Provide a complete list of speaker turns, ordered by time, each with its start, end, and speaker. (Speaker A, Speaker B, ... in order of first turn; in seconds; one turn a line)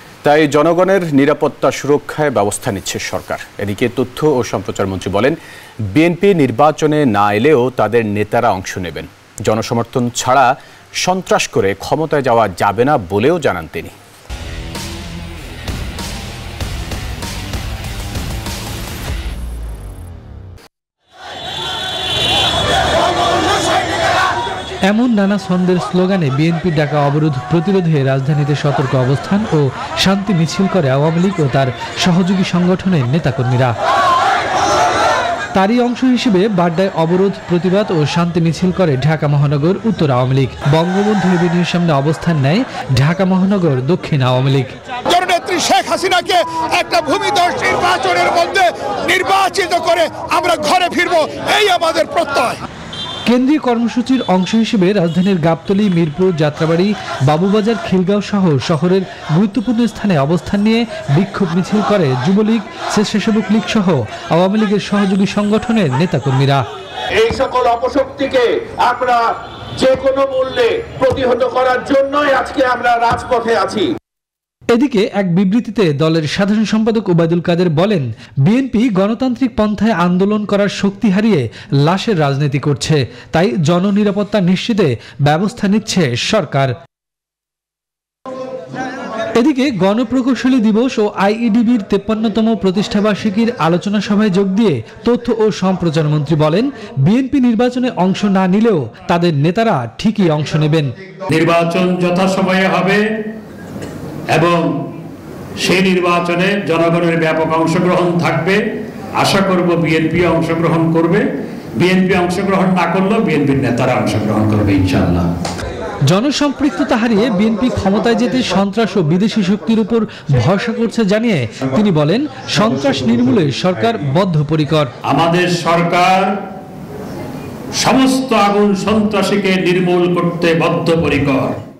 Speaker A: 0.2-5.4
Speaker A: 5.9-10.5
Speaker A: 11.0-13.9
Speaker B: 24.9-33.7
Speaker B: 35.6-44.7
Speaker C: 45.1-52.6
Speaker B: 53.3-66.6
Speaker D: 67.2-69.2
Speaker D: 69.8-73.9
Speaker B: 74.7-86.7
Speaker B: 89.4-100.9
Speaker E: 101.3-103.0
Speaker E: 104.3-104.7
Speaker E: 105.6-108.6
Speaker E: 109.2-111.2
Speaker E: 111.8-115.2
Speaker B: 116.1-124.9
Speaker E: 125.1-126.3
Speaker E: 127.8-131.6